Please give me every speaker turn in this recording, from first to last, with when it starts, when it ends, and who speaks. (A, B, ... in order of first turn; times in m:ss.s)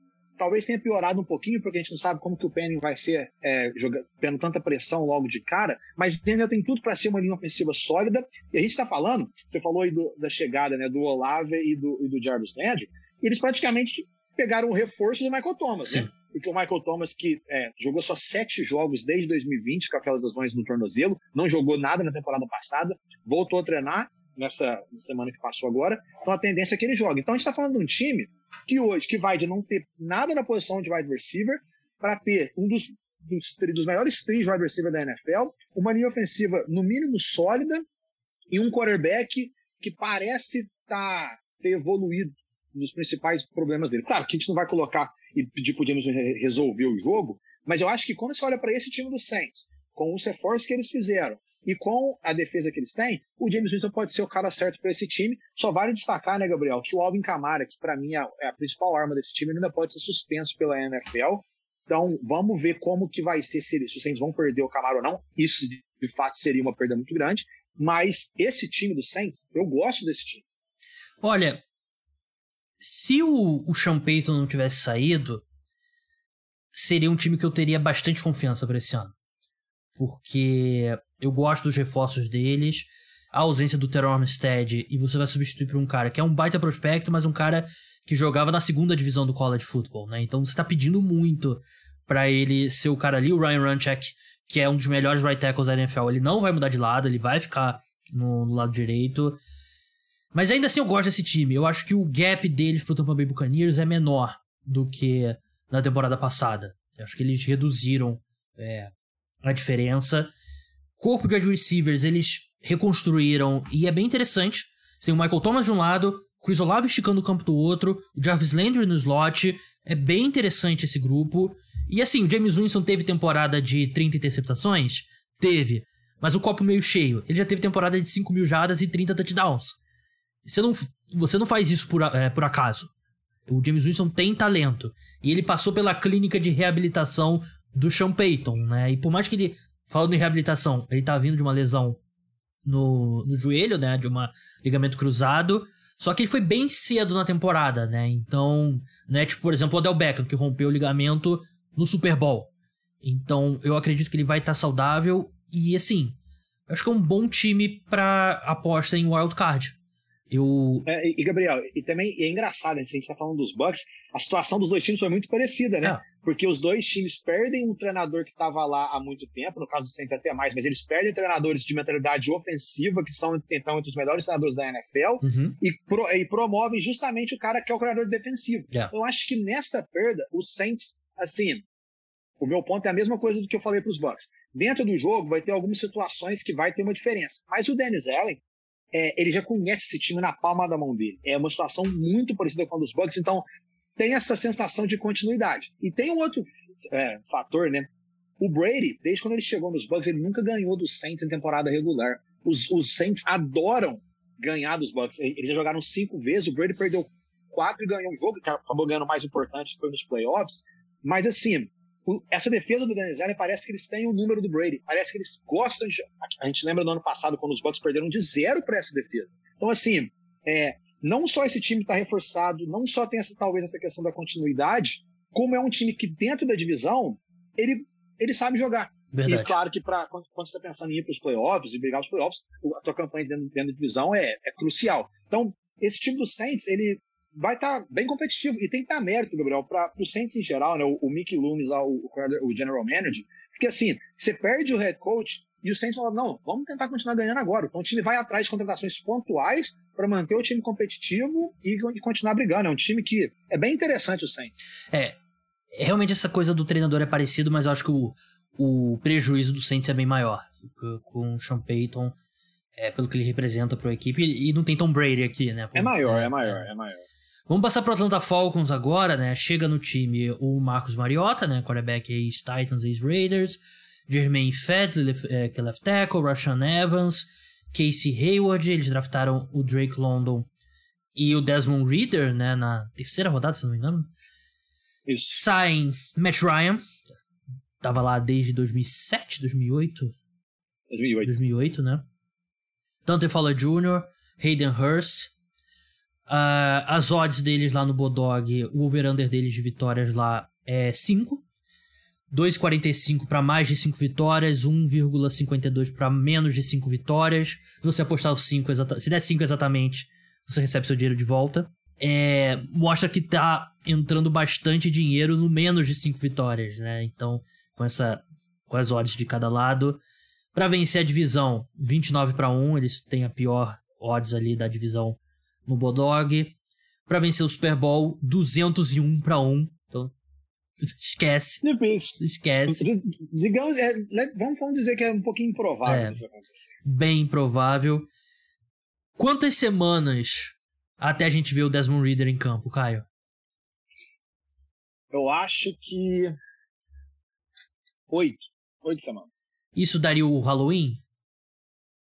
0:00.4-0:37.8 A
0:38.5-1:10.4 A
1:11.2-1:11.6 B
1:12.8-1:15.4 B
1:16.7-1:19.1 B
1:20.0-1:39.4 B
1:40.3-1:48.9 B
1:49.4-1:50.3 B
1:51.0-2:09.8 B
2:10.4-2:12.9 B
2:13.5-2:22.0 B
2:22.6-2:32.5 B
2:33.0-2:36.2 B
2:36.7-2:39.8 B
2:40.3-2:40.9 B
2:40.9-3:01.6 A
2:55.2-2:55.6 B
3:02.4-3:13.4 A
3:14.0-3:17.9 A
3:18.4-4:14.5 A
3:49.1-3:49.6 B
4:15.8-4:22.2 B
4:22.8-4:26.7 B
4:25.8-4:27.0 A
4:27.5-4:40.5 B
4:41.2-4:44.1 B
4:45.1-4:45.4 A
4:45.3-4:46.8 B
4:47.8-4:50.1 B
4:50.9-4:51.3 A
4:51.2-4:52.0 B
4:53.0-4:55.3 B
4:56.3-5:01.4 B
5:02.3-5:20.0 B
5:20.5-5:26.6 B
5:27.1-5:30.1 B
5:30.8-5:31.6 B
5:31.6-5:36.5 A
5:32.2-5:32.9 B
5:35.8-5:36.2 B
5:36.8-5:38.1 B
5:39.2-5:43.1 B
5:45.1-5:46.4 A
5:48.1-5:49.3 A
5:49.8-5:51.0 B